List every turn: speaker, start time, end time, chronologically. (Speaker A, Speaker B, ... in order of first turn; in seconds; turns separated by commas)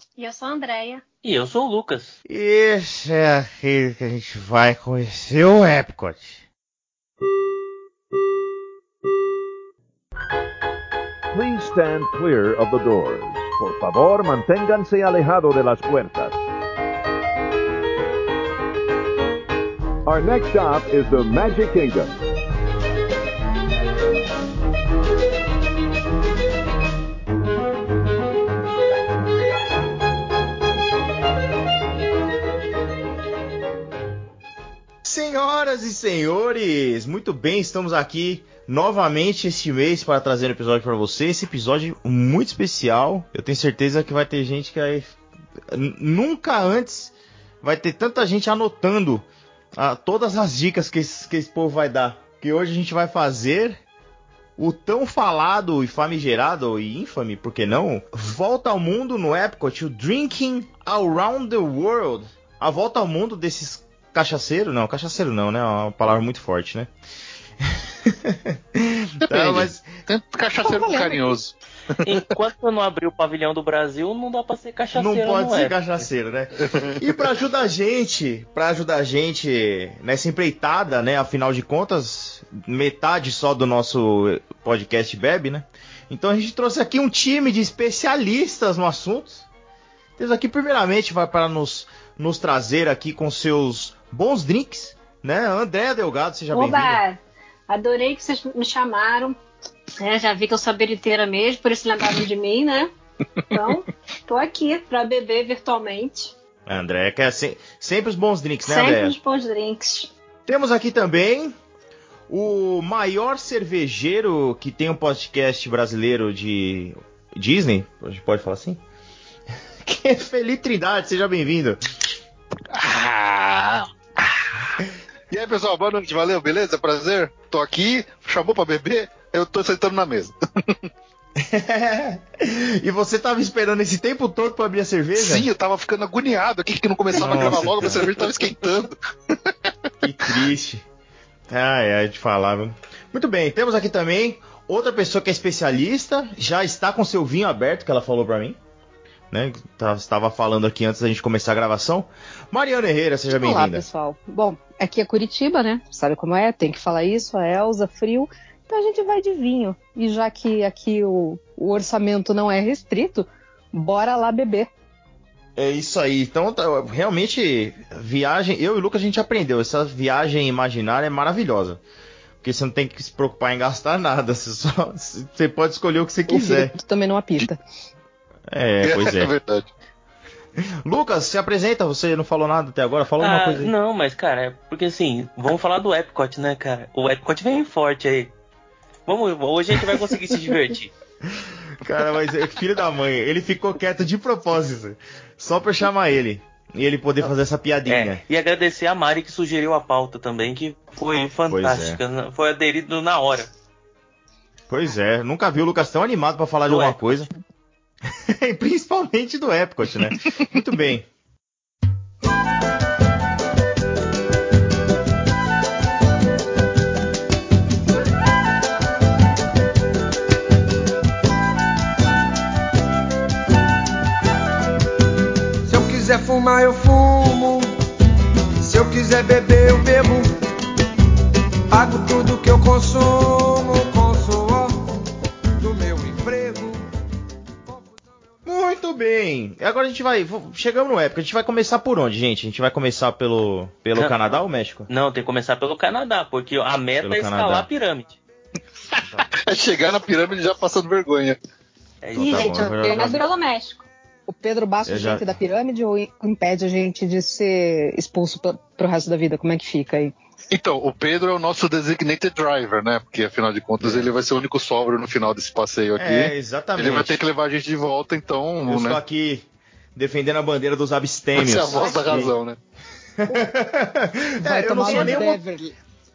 Speaker A: 0.2-1.0, Speaker B: 1.2-2.1, Speaker C: 2.2-6.4, Speaker D: 11.3-16.4, Speaker D: 20.1-22.1, Speaker C: 35.0-45.1, Speaker C: 45.7-53.8, Speaker C: 54.6-66.9, Speaker C: 67.7-69.9, Speaker E: 69.2-72.3, Speaker F: 70.6-71.3, Speaker B: 72.0-75.9, Speaker C: 74.9-89.4, Speaker E: 76.6-77.2, Speaker C: 90.2-97.0, Speaker A: 96.5-99.4, Speaker A: 100.0-102.9, Speaker A: 103.5-106.3, Speaker C: 106.7-109.2, Speaker A: 108.7-110.1, Speaker C: 110.5-111.5, Speaker C: 112.3-118.8, Speaker C: 119.8-121.8, Speaker E: 122.7-124.7, Speaker E: 125.3-130.9, Speaker C: 131.4-135.5, Speaker E: 135.2-139.7, Speaker C: 137.2-138.0, Speaker B: 137.2-138.1, Speaker C: 140.0-140.8, Speaker C: 141.5-148.6, Speaker C: 149.3-153.8, Speaker F: 153.3-164.7, Speaker C: 165.6-171.8, Speaker C: 172.4-176.7, Speaker F: 176.3-177.6, Speaker C: 178.5-179.3, Speaker E: 178.8-179.7, Speaker C: 180.6-183.7, Speaker B: 183.2-188.3, Speaker B: 189.1-190.9, Speaker C: 191.3-198.2, Speaker B: 197.8-203.5, Speaker C: 201.5-202.0, Speaker C: 204.7-207.3, Speaker B: 206.7-207.2, Speaker C: 208.3-211.1, Speaker G: 225.7-227.7, Speaker G: 228.6-230.3, Speaker G: 231.7-234.8, Speaker G: 235.6-236.8, Speaker C: 238.4-244.9, Speaker B: 243.9-244.4, Speaker B: 244.9-248.2, Speaker C: 247.0-247.7, Speaker E: 249.3-251.4, Speaker B: 252.0-252.8, Speaker C: 252.1-253.3, Speaker A: 252.2-253.8, Speaker F: 254.3-260.1, Speaker C: 254.8-255.2, Speaker E: 260.5-269.0, Speaker C: 263.8-264.1, Speaker C: 266.0-267.2, Speaker C: 268.6-272.3, Speaker E: 271.3-272.6, Speaker A: 271.8-272.1, Speaker C: 273.2-275.4, Speaker F: 274.4-275.8, Speaker A: 274.8-275.2